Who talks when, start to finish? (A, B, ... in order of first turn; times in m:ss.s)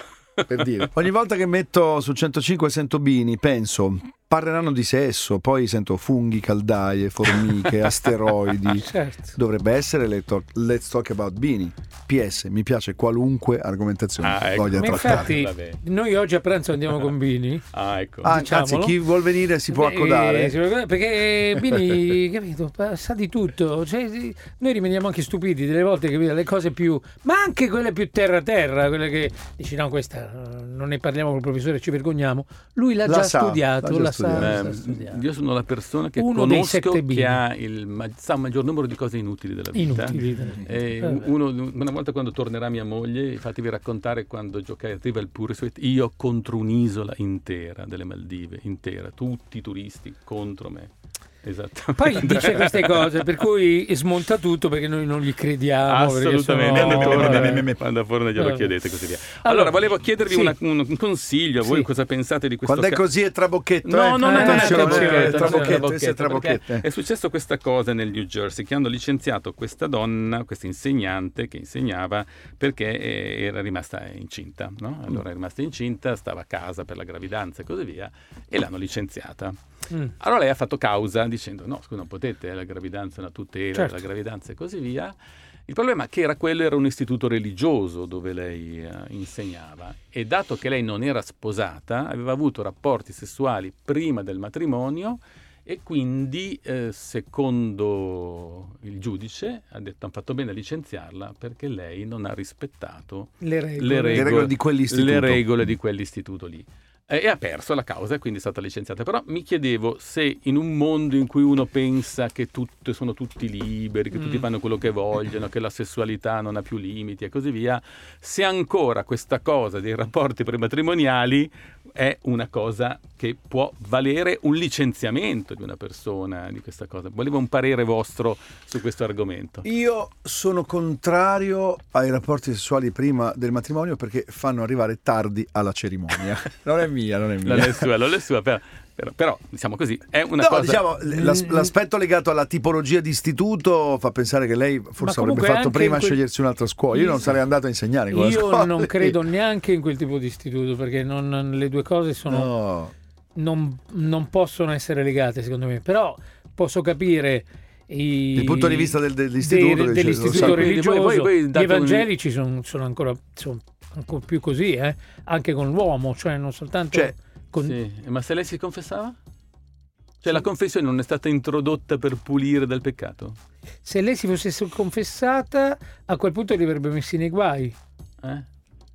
0:00.5-0:15.3 A
0:08.8-0:09.3 B
0:14.2-0:15.8 C
0:14.8-0:17.6 B
0:17.7-0:18.3 C
0:18.2-0:19.0 B
0:18.2-0:20.6 A
0:19.7-0:35.2 B
0:33.0-0:34.8 A
0:34.4-0:50.9 C
0:36.2-0:37.4 B
0:39.8-0:41.2 B
0:51.4-0:53.2 C
0:52.0-0:57.7 B
0:55.8-1:03.0 C
0:56.7-0:57.8 A
0:58.4-0:58.7 B
0:59.4-1:00.6 B
1:02.6-1:06.8 A
1:03.8-1:19.6 C
1:04.2-1:05.8 B
1:20.2-1:25.1 C
1:25.7-2:09.6 C
1:43.4-1:44.3 B
1:44.1-1:45.5 A
1:54.2-1:54.4 B
2:09.6-2:17.9 A
2:17.4-2:20.8 C
2:20.4-2:29.2 A
2:21.1-2:21.7 B
2:25.0-2:26.2 B
2:26.9-2:27.2 B
2:28.1-2:32.5 B
2:32.3-2:32.9 A
2:33.4-2:47.8 B
2:38.4-2:40.7 A
2:40.3-2:42.1 C
2:47.6-2:49.2 C
2:50.2-2:53.4 C
2:53.8-2:57.8 B